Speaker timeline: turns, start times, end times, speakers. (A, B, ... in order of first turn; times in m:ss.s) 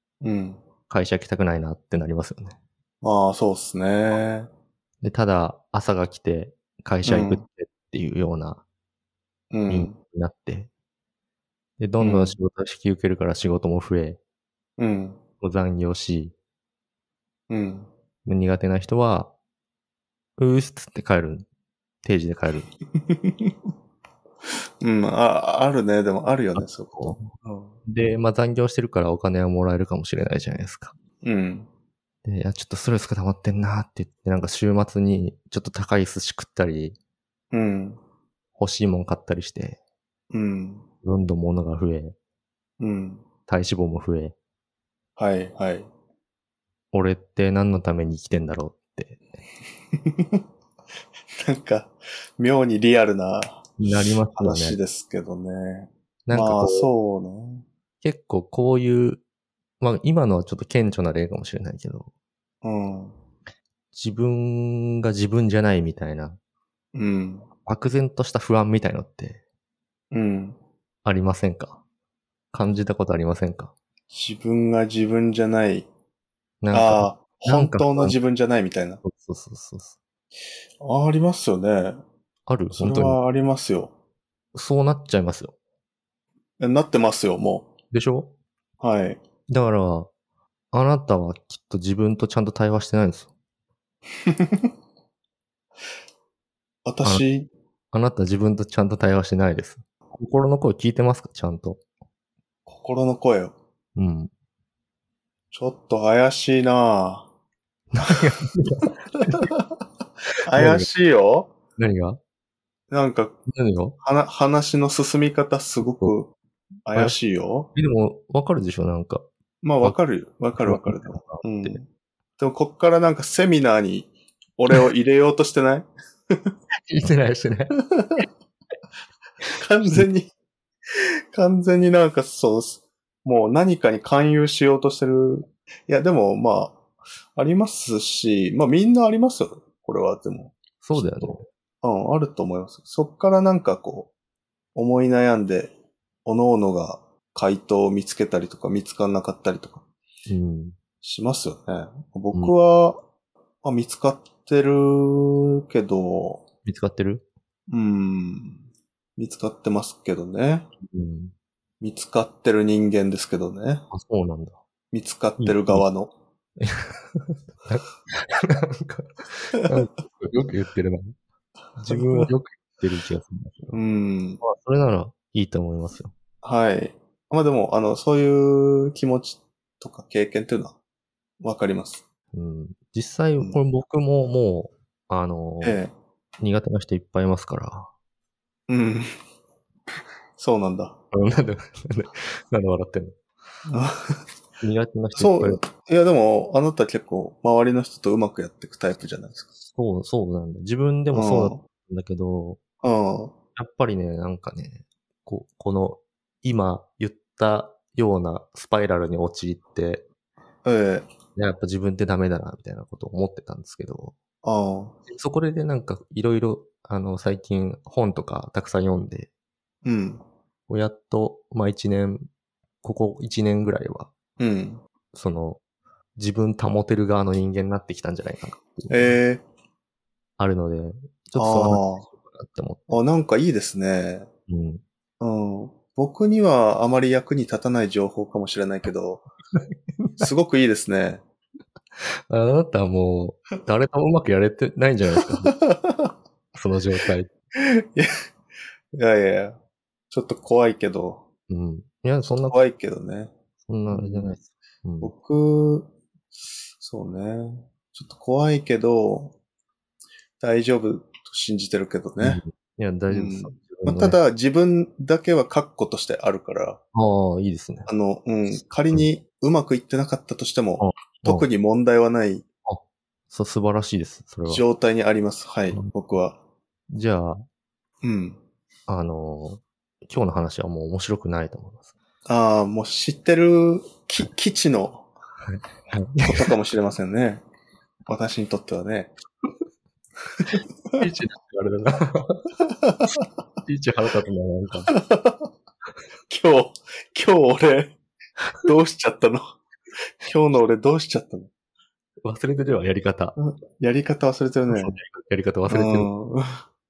0:00.2-0:00.6 A
0:00.9-0:02.6 B
0:03.0-0:04.5 A
0:05.0-0:08.6 B
0:07.0-0:07.4 A
0:09.5-0:10.0 A
0:09.7-0:10.7 B
0:11.8-0:14.2 B
0:12.0-0:12.4 A
0:14.8-0:15.2 A
0:15.4-0:16.3 B
0:17.5-0:17.9 A
0:18.2-0:19.3 B
0:20.4-0:21.5 B
0:22.0-0:22.7 B
0:23.0-0:23.5 A
0:24.8-0:27.8 A
0:26.6-0:27.2 B
0:27.8-0:30.9 B
0:31.2-0:31.7 A
0:32.2-0:37.0 B
0:37.5-0:38.0 A
0:38.6-0:39.8 B
0:40.3-0:40.8 A
0:41.0-0:42.1 B
0:42.8-0:43.2 A
0:43.5-0:44.3 B
0:45.2-0:45.9 A
0:46.9-0:49.2 B
0:50.0-0:50.4 A
0:51.4-0:57.6 A
0:53.8-0:54.8 B
0:56.3-0:56.9 B
0:58.0-0:59.2 B
0:59.8-1:02.1 B
1:02.6-1:03.2 A
1:03.9-1:06.4 B
1:06.9-1:07.5 A
1:07.6-1:09.4 B
1:10.1-1:10.6 A
1:11.0-1:11.8 B
1:12.5-1:13.7 B
1:14.1-1:15.9 A
1:16.6-1:18.2 B
1:16.7-1:19.0 A
1:19.0-1:20.0 B
1:20.8-1:22.0 A
1:22.5-1:23.2 B
1:22.7-1:23.9 A
1:24.5-1:25.5 B
1:26.6-1:27.7 A
1:27.9-1:28.3 B
1:28.8-1:29.2 A
1:29.5-1:30.1 B
1:30.7-1:33.3 B
1:34.2-1:34.7 A
1:36.8-1:37.5 A
1:37.9-1:41.8 B
1:42.7-1:43.5 A
1:44.0-1:44.3 B
1:45.5-1:47.3 A
1:47.9-1:49.5 B
1:48.8-1:49.6 A
1:50.4-1:51.5 A
1:50.5-1:50.9 B
1:51.8-1:52.2 B
1:52.9-1:53.4 A
1:53.5-1:54.0 B
1:54.0-1:56.3 A
1:56.8-1:57.7 A
1:57.7-1:59.2 B
1:59.6-2:01.8 A
2:00.6-2:01.8 B
2:02.4-2:06.5 A
2:06.9-2:07.8 B
2:07.9-2:08.2 A
2:09.5-2:10.3 A
2:11.3-2:16.8 A
2:17.4-2:24.1 A
2:20.8-2:21.4 B
2:24.7-2:25.7 A
2:26.2-2:29.8 A
2:30.3-2:30.8 B
2:31.0-2:33.0 A
2:33.6-2:36.4 A
2:36.6-2:37.2 B
2:37.7-2:38.6 A
2:39.2-2:40.7 A
2:40.8-2:41.3 B
2:41.8-2:43.8 A
2:43.9-2:44.6 B
2:44.9-2:46.1 A
2:45.4-2:45.8 B
2:46.6-2:51.1 B
2:51.8-2:53.8 B
2:51.9-2:52.3 A
2:53.7-2:54.4 A
2:54.4-2:56.1 B
2:56.4-3:00.8 A
3:01.4-3:02.0 A
3:02.3-3:05.8 B
3:05.6-3:05.9 A
3:06.4-3:07.9 B
3:08.7-3:09.1 A
3:10.4-3:11.0 A
3:11.1-3:13.2 B
3:13.7-3:14.2 A
3:14.6-3:15.6 B
3:15.1-3:19.5 A
3:19.7-3:22.6 B
3:21.1-3:21.6 A
3:22.8-3:23.3 A
3:23.6-3:30.0 B
3:30.6-3:31.1 A
3:31.4-3:34.2 B
3:34.4-3:35.0 A
3:35.1-3:39.3 B
3:39.8-3:40.2 A
3:40.7-3:42.3 B
3:42.8-3:44.1 B
3:44.4-3:44.8 A
3:45.1-3:45.6 B
3:46.2-3:49.2 B
3:48.9-3:49.4 A
3:50.4-3:53.0 B
3:51.4-3:52.1 A
3:52.9-3:54.3 A
3:54.5-3:54.8 B
3:55.2-3:59.2 A
4:00.0-4:00.3 B
4:00.2-4:01.2 A
4:02.3-4:05.5 B
4:05.2-4:06.1 A
4:06.5-4:07.3 B
4:07.6-4:08.1 A
4:08.9-4:09.6 A
4:10.1-4:11.2 A
4:11.5-4:12.6 B
4:12.5-4:13.3 A
4:13.6-4:15.1 B
4:13.9-4:14.3 A
4:15.0-4:15.9 A
4:16.8-4:19.3 A
4:20.4-4:22.4 A
4:22.2-4:24.2 B
4:23.1-4:26.8 A
4:26.9-4:27.9 B
4:27.9-4:32.4 A
4:30.8-4:31.5 B
4:32.6-4:34.6 B
4:34.5-4:36.4 A
4:36.9-4:37.4 B
4:38.0-4:38.4 A
4:38.9-4:41.9 B
4:42.2-4:45.1 A
4:45.4-4:46.5 B
4:46.3-4:47.4 A
4:48.1-4:49.1 A
4:50.4-4:51.0 A
4:51.0-4:52.5 B
4:52.8-4:53.2 A
4:53.6-4:54.9 B
4:54.9-4:55.5 A
4:56.3-4:58.0 A
4:58.6-4:59.4 A
5:00.2-5:01.5 A
5:02.2-5:03.4 B
5:03.4-5:05.0 A
5:04.7-5:06.1 B
5:05.7-5:06.6 A